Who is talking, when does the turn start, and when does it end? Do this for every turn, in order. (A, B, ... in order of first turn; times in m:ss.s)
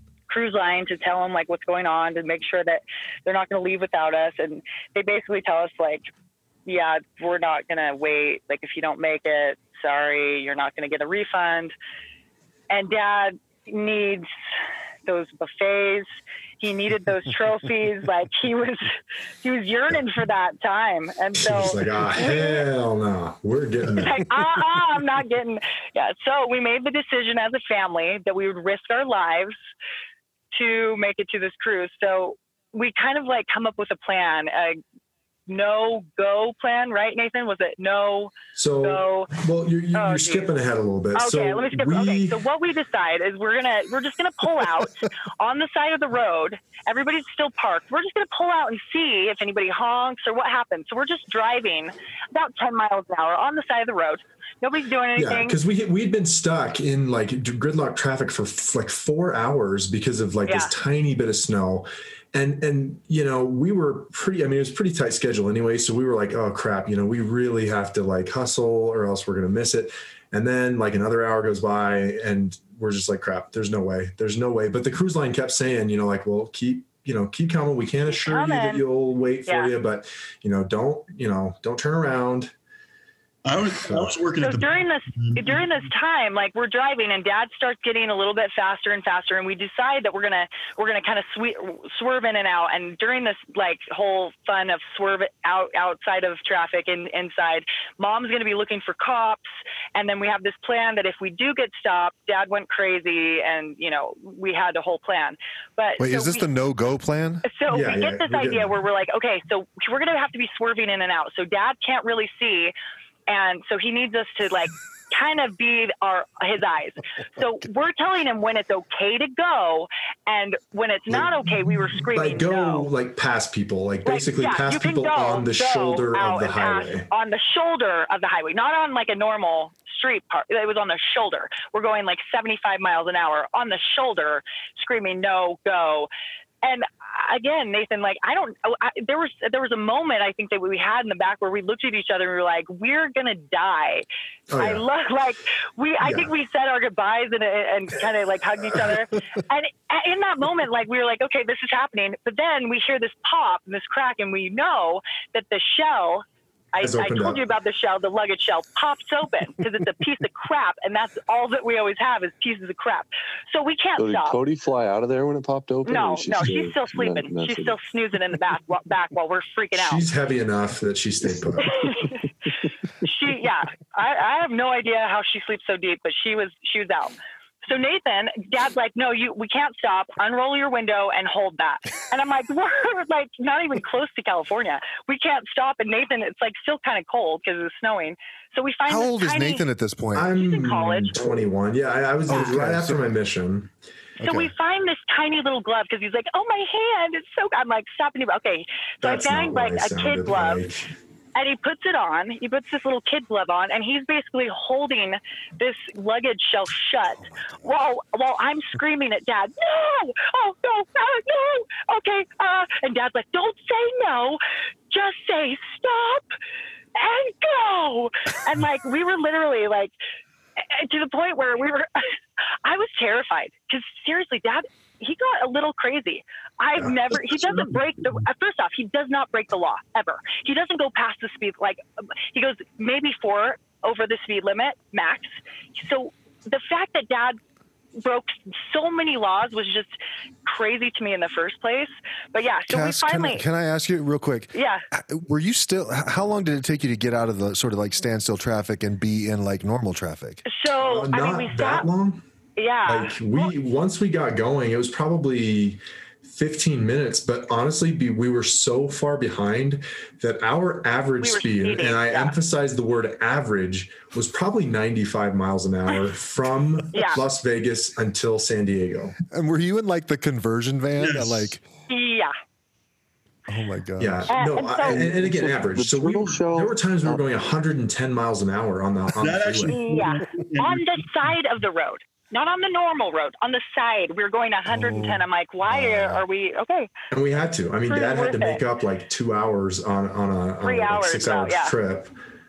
0:00.3-0:06.1 A
0:06.6-0:11.7 A
0:12.7-0:14.3 A
0:15.0-0:16.1 A
0:16.6-0:22.6 A
0:21.3-0:24.3 B
0:23.9-0:29.5 A
0:30.5-0:34.8 A
0:35.5-0:39.3 A
0:38.5-0:42.4 B
0:39.9-0:40.5 A
0:41.1-0:55.6 A
0:55.2-1:22.5 B
1:00.4-1:00.7 A
1:18.1-1:18.8 A
1:19.5-1:19.7 A
1:23.4-1:25.8 C
1:23.8-1:24.2 B
1:24.4-1:46.5 A
1:46.0-1:47.4 D
1:47.4-1:52.7 A
1:47.7-1:48.8 B
1:53.3-2:02.9 A
2:01.1-2:07.1 B
2:04.0-2:16.1 A
2:16.6-2:24.0 A
2:24.5-2:24.8 B
2:24.6-2:44.4 A
2:26.0-2:26.3 B
2:36.8-2:37.4 B
2:44.0-2:47.8 E
2:45.8-2:50.0 A
2:49.7-2:51.9 B
2:51.6-2:52.2 A
2:53.0-3:09.6 A
3:08.9-3:10.3 D
3:10.1-3:13.7 B
3:10.3-3:11.3 A
3:12.3-3:13.1 D
3:14.2-3:20.6 A
3:14.2-3:14.5 D
3:19.0-3:20.9 B
3:21.3-3:36.2 A
3:27.2-3:27.7 D
3:37.0-3:39.9 A
3:40.6-3:42.1 A
3:42.6-3:51.8 A
3:46.8-3:47.8 B
3:52.3-3:57.4 A
3:58.0-3:59.9 A
4:00.4-4:03.4 A
4:02.7-4:10.4 D
4:04.5-4:04.8 A
4:10.4-4:11.9 A
4:10.7-4:12.2 B
4:12.6-4:13.5 A
4:12.8-4:29.1 B
4:21.2-4:22.4 A
4:26.9-4:27.2 A
4:29.3-4:31.6 D
4:31.0-4:31.6 C
4:31.9-4:32.3 A
4:33.5-4:34.3 D
4:34.0-4:39.8 B
4:34.3-4:35.1 A
4:34.8-4:37.2 E
4:39.2-4:41.3 C
4:39.7-4:46.9 A
4:44.7-4:46.2 D
4:47.1-4:52.1 B
4:47.9-4:48.6 A
4:50.6-4:51.7 A